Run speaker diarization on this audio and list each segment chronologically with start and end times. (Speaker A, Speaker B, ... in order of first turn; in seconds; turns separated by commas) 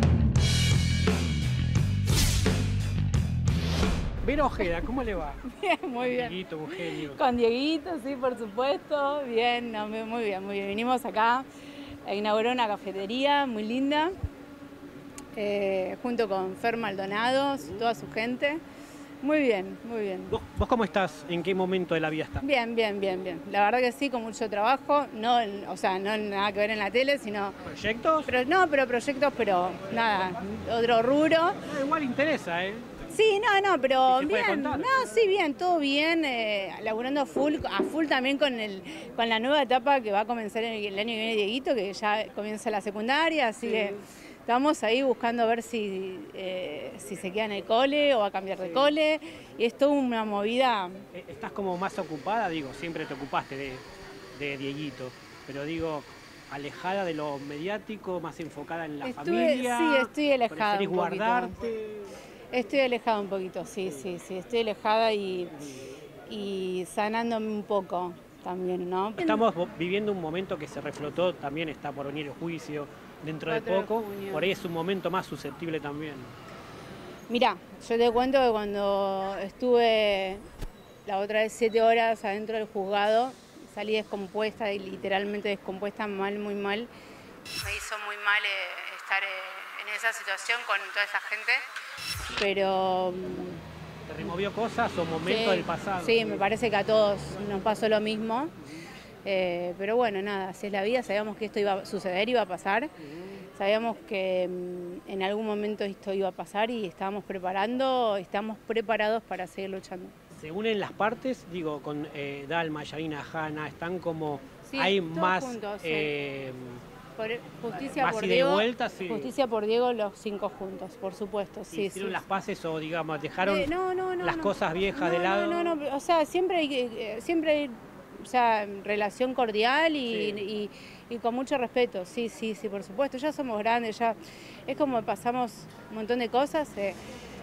Speaker A: 4.2-5.4, Speaker B: 5.5-11.5, Speaker A: 6.0-7.2, Speaker B: 12.1-14.1, Speaker B: 15.4-18.6, Speaker B: 19.2-20.3, Speaker A: 20.3-22.4, Speaker B: 22.4-27.6, Speaker A: 27.6-28.3, Speaker B: 28.3-31.6, Speaker A: 31.6-32.9, Speaker B: 33.1-51.0, Speaker A: 34.0-35.2, Speaker A: 43.6-44.0, Speaker A: 51.1-62.1, Speaker B: 59.0-61.5, Speaker B: 62.5-65.7, Speaker B: 66.3-69.4, Speaker A: 69.2-76.3, Speaker B: 73.5-74.4, Speaker B: 77.3-80.4, Speaker B: 81.1-86.9, Speaker B: 87.6-91.6, Speaker B: 92.4-93.6, Speaker A: 94.1-96.5, Speaker B: 95.2-98.5, Speaker B: 99.2-102.9, Speaker A: 103.1-103.4, Speaker B: 103.5-110.2, Speaker A: 110.3-116.8, Speaker B: 114.6-116.1, Speaker B: 117.2-122.2, Speaker A: 117.9-119.3, Speaker A: 121.7-125.8, Speaker B: 123.4-137.0, Speaker A: 130.1-130.4